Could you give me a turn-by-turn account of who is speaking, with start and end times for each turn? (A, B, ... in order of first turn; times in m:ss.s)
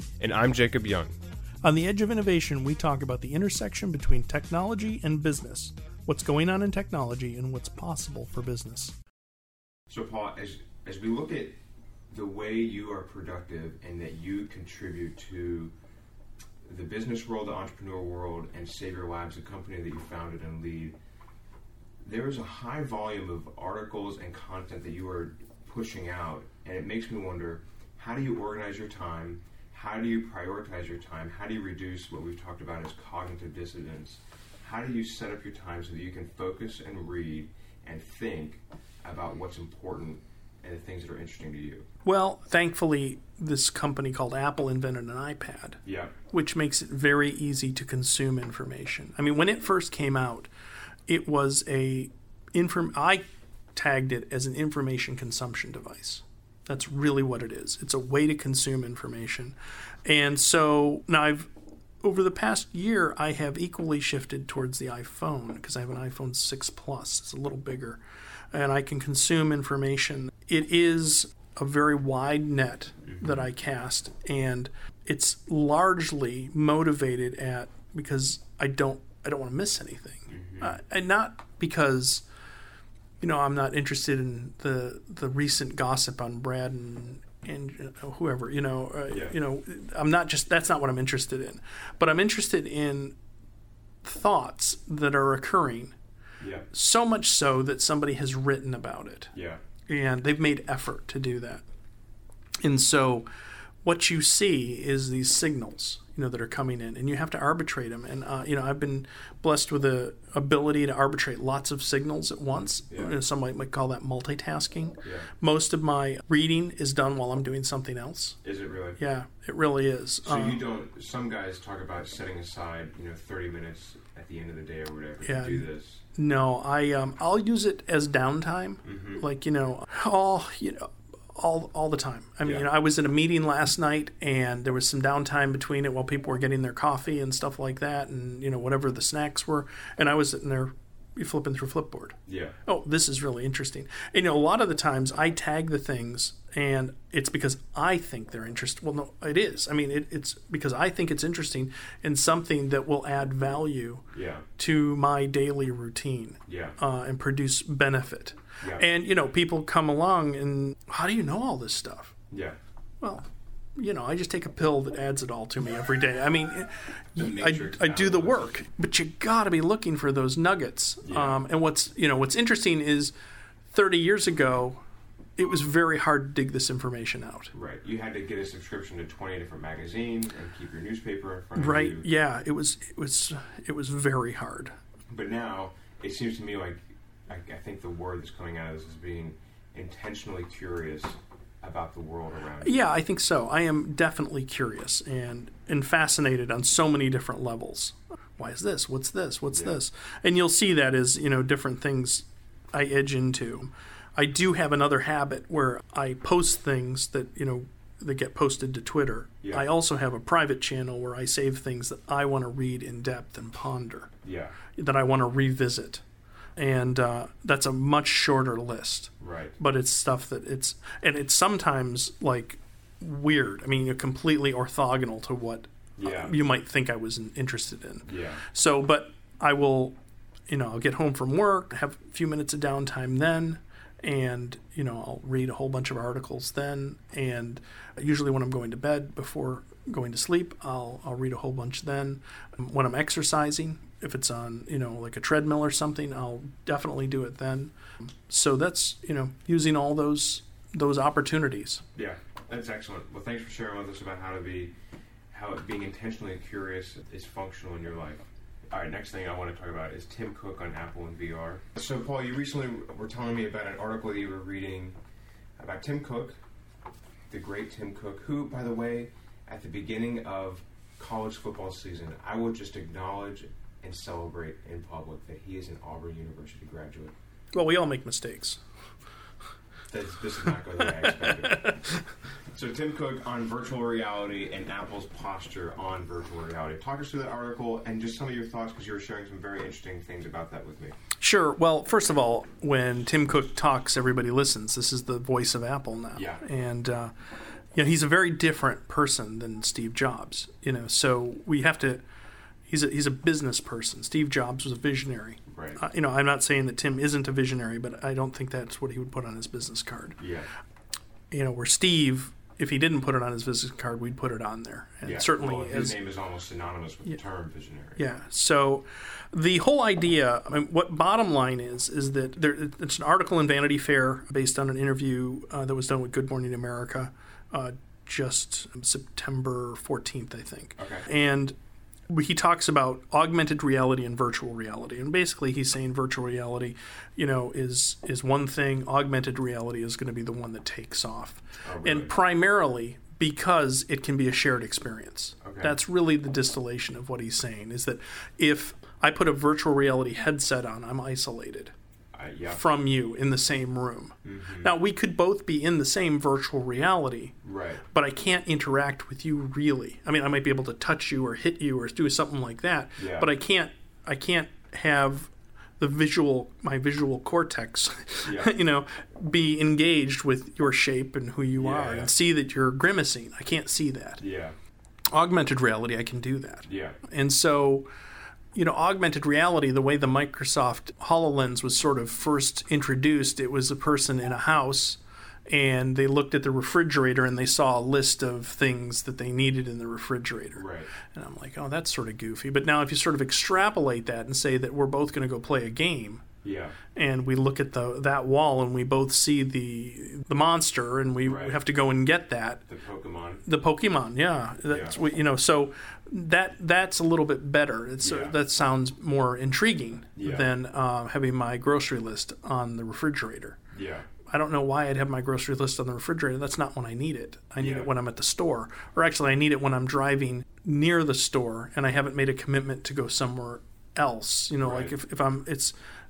0:00.2-0:01.2 A
0:01.6-0:09.0 B
0:09.9-0:11.6 A
0:12.1-0:15.7 A
0:16.7-0:21.0 A
0:22.0-0:41.9 A
0:42.0-0:50.5 B
0:45.9-0:46.2 A
0:51.1-0:53.2 B
0:53.8-1:01.5 B
1:02.0-1:22.2 B
1:20.3-1:20.8 A
1:23.2-1:33.2 B
1:29.1-1:29.4 A
1:34.0-1:36.0 B
1:36.4-1:36.7 A
1:36.7-1:39.3 B
1:39.3-1:39.6 A
1:39.9-1:41.6 B
1:42.6-1:43.3 B
1:43.8-1:58.4 B
1:55.0-1:55.3 A
1:58.4-1:59.0 A
1:59.0-2:00.6 B
2:00.2-2:06.0 A
2:05.2-2:34.1 B
2:08.8-2:09.2 A
2:22.3-2:22.6 A
2:34.1-2:34.4 A
2:34.6-2:42.2 B
2:36.5-2:36.8 A
2:42.3-2:42.6 A
2:43.0-2:53.1 B
2:47.2-2:48.5 A
2:51.0-2:51.4 A
2:53.7-2:54.8 B
2:55.4-2:57.5 B
2:57.5-3:02.1 A
3:01.6-3:04.7 B
3:05.1-3:12.8 A
3:12.6-3:34.1 B
3:19.5-3:19.8 A
3:34.2-3:34.6 A
3:34.8-3:36.0 B
3:36.6-3:50.0 B
3:39.2-3:39.6 A
3:46.0-3:46.4 A
3:48.1-3:48.4 A
3:50.5-4:07.7 B
4:08.3-4:11.8 B
4:12.0-4:14.8 A
4:15.3-4:25.0 A
4:25.6-4:26.4 A
4:27.3-4:37.1 A
4:37.5-4:38.6 B
4:39.9-4:41.8 A
4:40.8-4:42.0 B
4:42.5-4:51.0 A
4:51.2-4:57.1 B
4:56.1-4:56.4 A
4:57.8-5:02.0 B
5:02.7-5:10.2 B
5:05.5-5:05.8 A
5:10.2-5:10.5 A
5:11.3-5:16.0 B
5:15.0-5:18.0 A
5:18.0-5:31.6 B
5:30.8-5:31.1 A
5:32.1-5:51.7 B
5:41.6-5:42.1 A
5:45.4-5:45.8 A
5:52.1-5:52.6 A
5:52.5-5:57.4 B
5:54.2-5:54.7 A
5:57.4-5:57.8 A
5:57.9-6:14.2 B
6:03.0-6:03.3 A
6:08.2-6:08.5 A
6:11.6-6:12.1 A
6:14.2-6:14.6 A
6:15.1-6:17.9 B
6:16.6-6:17.0 A
6:18.6-6:36.2 B
6:30.6-6:30.9 A
6:36.4-6:36.8 A
6:37.0-6:42.6 B
6:41.2-6:41.6 A
6:42.7-6:43.4 A
6:43.4-6:53.6 B
6:44.7-6:45.0 A
6:48.0-6:48.4 A
6:50.2-6:50.5 A
6:53.7-6:54.1 A
6:54.3-7:05.7 B
6:57.6-6:57.9 A
7:04.6-7:04.9 A